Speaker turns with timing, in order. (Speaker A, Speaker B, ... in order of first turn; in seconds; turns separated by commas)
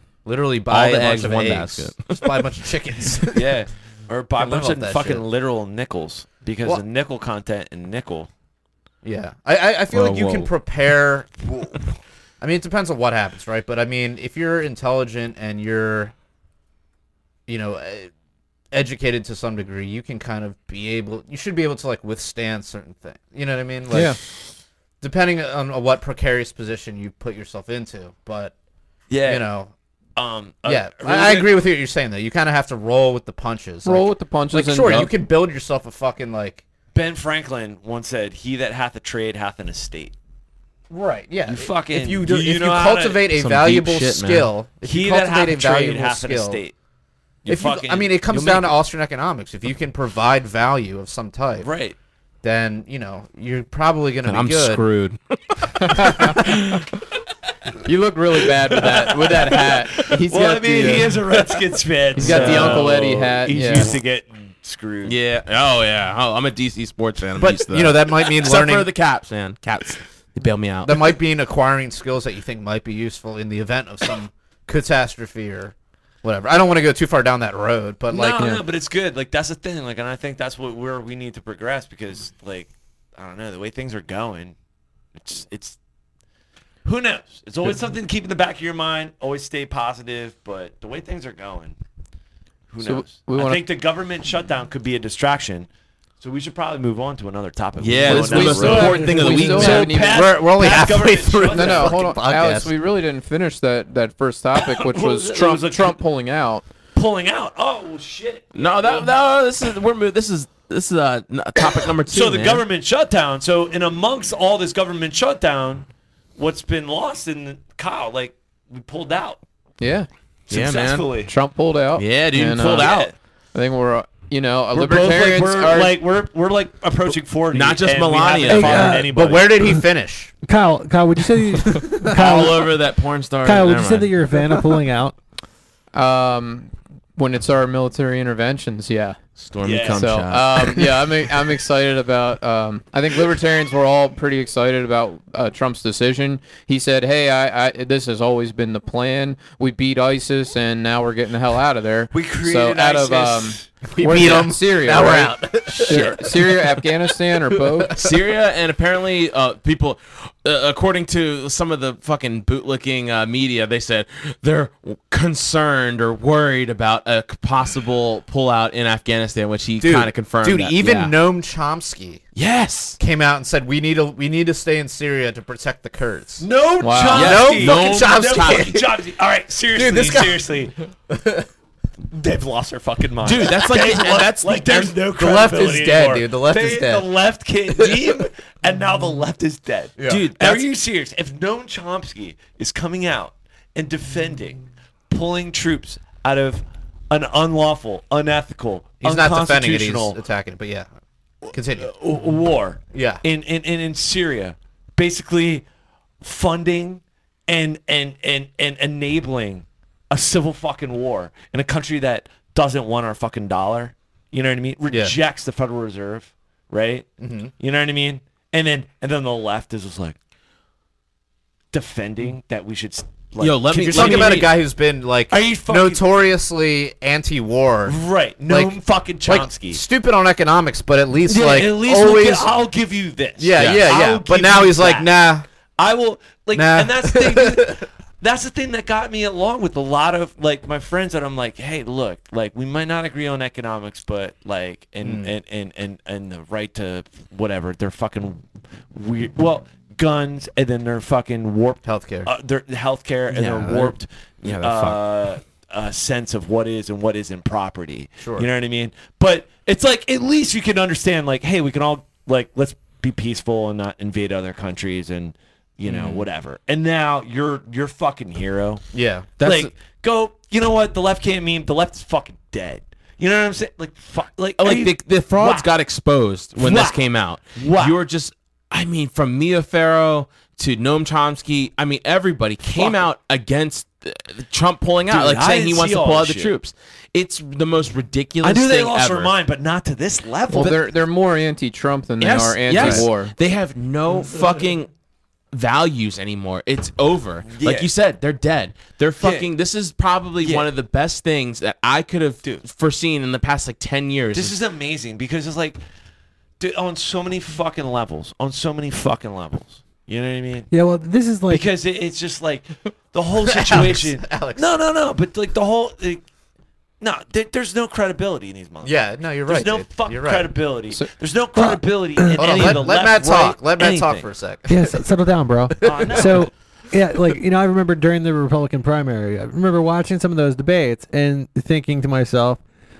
Speaker A: 0.2-3.5, Speaker B: 0.7-2.3, Speaker C: 3.3-8.3, Speaker A: 4.4-5.2, Speaker A: 9.0-11.8, Speaker B: 9.9-10.5, Speaker A: 12.4-16.1, Speaker A: 17.5-18.1, Speaker A: 18.7-24.2, Speaker D: 23.9-24.2, Speaker A: 25.0-28.5, Speaker C: 29.1-29.5, Speaker A: 29.2-29.7, Speaker C: 30.1-31.6, Speaker A: 30.6-36.6, Speaker D: 33.8-35.1, Speaker C: 36.9-40.1, Speaker A: 40.9-46.6, Speaker C: 41.5-43.2, Speaker B: 43.3-44.5, Speaker C: 44.8-46.7, Speaker C: 47.4-48.8, Speaker A: 47.5-51.7, Speaker C: 51.6-52.0, Speaker A: 52.4-54.8, Speaker B: 54.2-56.5, Speaker D: 55.8-56.6, Speaker A: 56.0-56.3, Speaker D: 57.8-61.2, Speaker C: 58.7-65.2, Speaker D: 62.2-63.9, Speaker A: 62.2-62.8, Speaker B: 62.3-62.8, Speaker B: 65.0-71.2, Speaker A: 67.4-68.9, Speaker A: 70.8-78.5, Speaker C: 78.1-84.5, Speaker C: 85.1-85.8, Speaker C: 86.8-91.7, Speaker C: 92.7-95.7, Speaker D: 92.8-93.6, Speaker C: 96.2-102.0, Speaker B: 97.8-100.0, Speaker D: 98.0-100.3, Speaker A: 100.0-102.7, Speaker D: 101.5-106.7, Speaker C: 104.5-106.0, Speaker C: 106.9-109.1, Speaker B: 108.5-112.6, Speaker C: 112.1-115.8, Speaker C: 116.4-119.4, Speaker D: 119.8-120.1, Speaker C: 120.5-121.3, Speaker B: 120.5-121.1, Speaker D: 121.3-122.9, Speaker B: 122.0-123.1, Speaker C: 122.6-123.1, Speaker D: 123.5-126.0, Speaker C: 124.7-129.5, Speaker B: 127.5-129.0, Speaker E: 128.5-129.1, Speaker A: 129.1-130.3, Speaker E: 130.5-132.8, Speaker B: 132.1-134.1, Speaker E: 133.4-135.2, Speaker D: 135.9-139.2, Speaker B: 139.4-140.9, Speaker C: 139.6-140.1, Speaker D: 139.8-157.9, Speaker C: 152.1-153.7, Speaker A: 153.8-156.8, Speaker B: 155.7-156.2, Speaker A: 157.5-158.2, Speaker B: 157.9-171.1, Speaker A: 169.8-172.2, Speaker B: 172.3-173.0, Speaker A: 173.0-176.4, Speaker C: 176.4-180.8, Speaker D: 176.8-177.4, Speaker B: 177.1-178.8, Speaker A: 177.1-178.8, Speaker A: 179.7-180.5, Speaker A: 181.1-181.5, Speaker C: 182.1-200.2, Speaker B: 183.2-184.9, Speaker A: 185.1-187.1, Speaker A: 187.8-188.1, Speaker A: 190.0-190.3, Speaker B: 190.1-190.7, Speaker A: 199.0-200.9, Speaker C: 201.5-205.6, Speaker A: 201.5-201.9, Speaker A: 202.9-203.2, Speaker C: 206.2-220.2, Speaker A: 214.9-215.1, Speaker A: 217.2-217.5, Speaker C: 221.7-224.5, Speaker B: 223.4-224.5, Speaker A: 223.8-232.5, Speaker C: 225.3-226.0, Speaker C: 227.8-229.8, Speaker C: 231.3-235.1, Speaker A: 233.4-235.4, Speaker B: 233.6-233.8, Speaker C: 235.8-268.8, Speaker A: 236.5-237.8, Speaker A: 245.0-245.3, Speaker A: 251.8-252.3, Speaker B: 253.4-253.9, Speaker A: 253.5-253.8, Speaker B: 254.4-255.0, Speaker A: 258.2-258.5, Speaker A: 265.8-266.2, Speaker A: 268.9-269.3, Speaker B: 269.4-269.7, Speaker C: 269.4-275.7, Speaker B: 274.6-289.3, Speaker C: 276.6-278.0, Speaker C: 282.7-283.0, Speaker C: 285.1-286.5, Speaker C: 288.4-290.8, Speaker D: 290.5-293.3, Speaker B: 292.2-294.9, Speaker A: 292.7-293.0, Speaker B: 295.5-304.6, Speaker C: 297.5-297.9, Speaker C: 299.2-299.5, Speaker C: 300.4-300.7, Speaker C: 304.3-305.8, Speaker C: 306.6-310.7, Speaker E: 310.7-311.7, Speaker C: 311.5-316.2, Speaker A: 313.5-314.7, Speaker C: 317.0-324.2, Speaker A: 318.8-320.5, Speaker E: 321.6-322.7, Speaker A: 322.4-325.0, Speaker E: 324.7-332.6, Speaker C: 325.8-326.5, Speaker A: 325.8-326.4